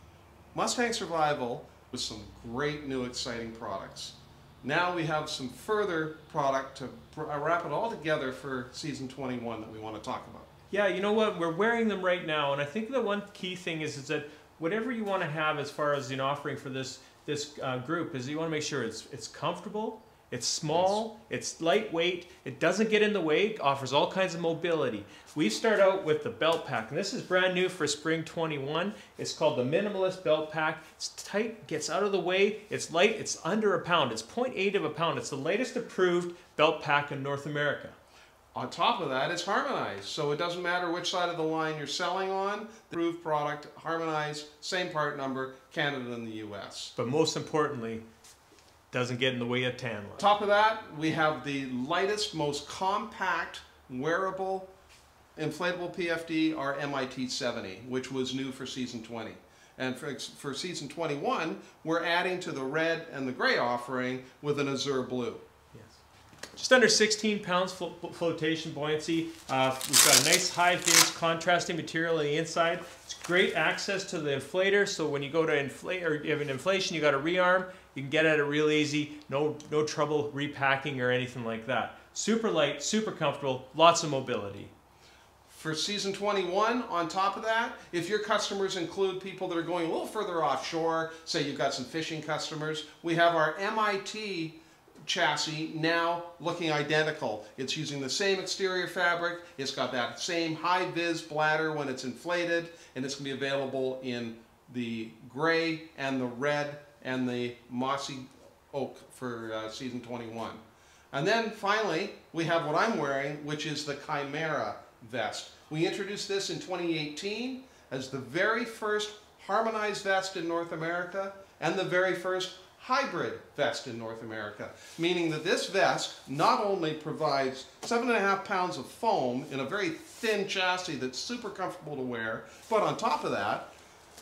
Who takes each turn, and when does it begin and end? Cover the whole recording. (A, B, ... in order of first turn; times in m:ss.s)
0:00.5-0:10.5 A
0:10.7-0:38.0 B
0:20.7-0:21.0 A
0:38.6-0:46.9 A
0:47.0-0:48.0 B
0:48.9-0:50.3 B
0:50.2-0:54.7 A
0:55.4-1:05.4 A
1:05.7-1:06.0 B
1:06.6-1:24.7 B
1:25.5-1:50.6 A
1:51.1-2:13.7 A